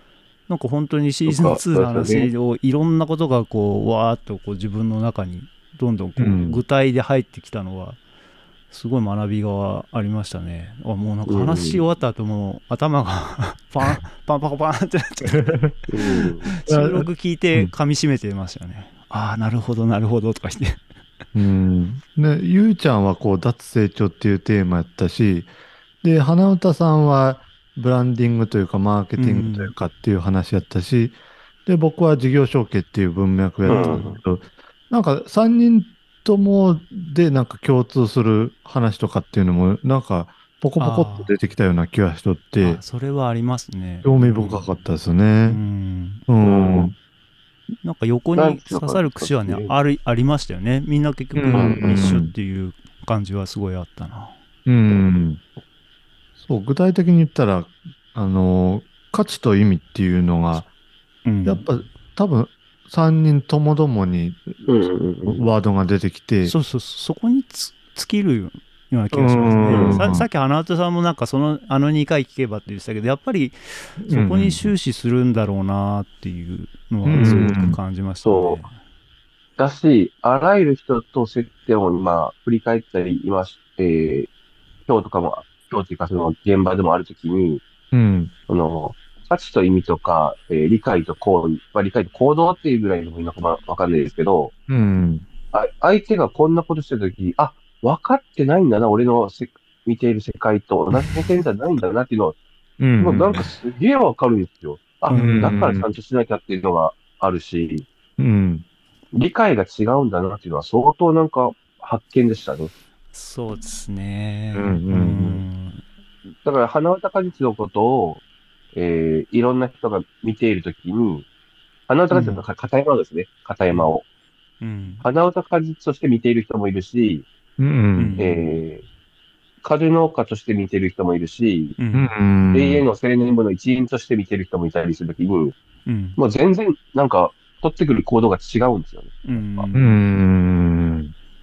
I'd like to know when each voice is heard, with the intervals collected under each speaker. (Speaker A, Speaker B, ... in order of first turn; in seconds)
Speaker A: 0.5-8.0, 8.7-20.8, 29.2-29.7, 33.7-34.0, 40.8-41.3, 42.6-44.7, 45.5-46.2, 47.8-54.3, 61.2-61.6, 66.4-78.7, 105.1-105.6, 113.1-115.8, 122.1-122.4, 124.6-125.0, 128.0-128.4, 131.8-132.1, 135.8-136.2, 139.2-140.0
Speaker B: 1.2-2.3, 11.3-11.8, 15.9-16.5, 33.7-34.2, 46.4-46.9, 48.4-49.7, 51.5-52.1, 64.7-65.5, 69.7-70.1, 77.2-77.5, 78.2-78.6, 79.6-84.3, 84.9-87.6, 88.5-94.5, 95.5-102.3, 103.0-107.8, 109.1-112.7, 116.4-118.2, 118.7-121.2, 121.9-124.0, 125.0-127.3, 128.2-128.8, 129.6-131.8, 132.5-135.5, 136.2-139.7
Speaker C: 6.2-6.6, 15.3-15.7, 16.7-17.7, 21.3-25.5, 26.0-42.8, 44.0-45.6, 46.3-46.9, 51.3-52.3, 54.6-55.4, 56.4-60.7, 61.4-64.6, 65.2-66.5, 69.1-70.3, 74.0-74.7, 77.0-77.8, 87.9-88.3, 94.7-95.2, 102.8-103.5, 105.1-105.9, 108.2-108.6, 114.5-115.4, 127.6-128.2, 131.9-132.8, 139.7-141.1